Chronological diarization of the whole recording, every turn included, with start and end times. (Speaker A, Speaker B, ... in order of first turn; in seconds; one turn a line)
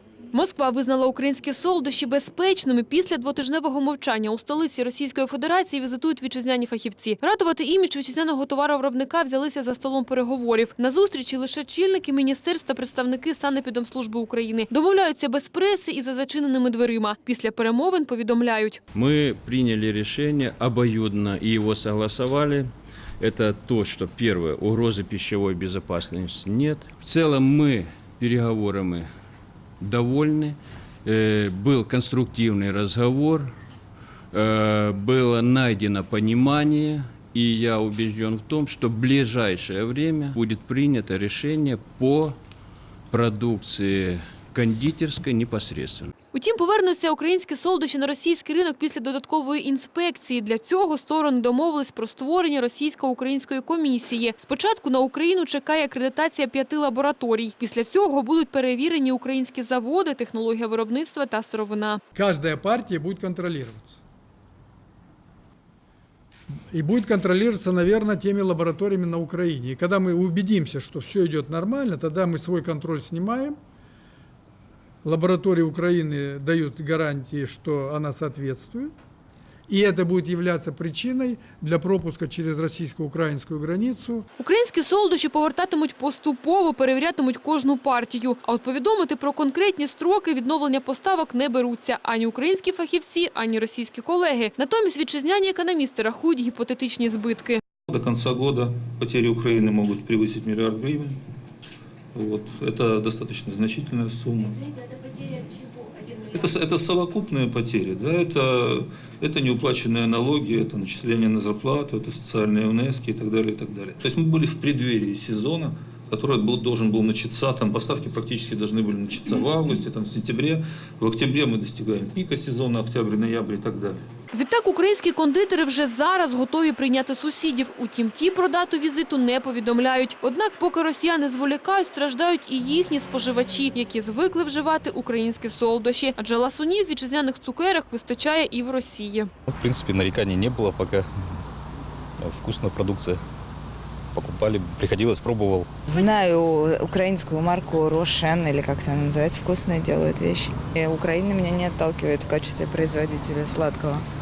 Speaker A: 0.3-18.8
Speaker B: 18.9-22.7
Speaker B: 23.2-29.1
Speaker B: 29.8-33.5
Speaker B: 34.3-42.4
Speaker B: 43.1-46.1
Speaker A: 46.3-62.0
Speaker C: 62.1-64.0
Speaker C: 66.7-73.5
Speaker C: 75.0-78.9
Speaker C: 79.7-84.2
Speaker A: 84.4-97.6
Speaker D: 97.9-101.2
Speaker D: 102.1-124.0
Speaker A: 124.3-139.3
Speaker E: 139.5-141.1
Speaker E: 142.2-143.2
Speaker E: 144.1-145.8
Speaker F: 145.9-154.0
Speaker A: 145.9-146.1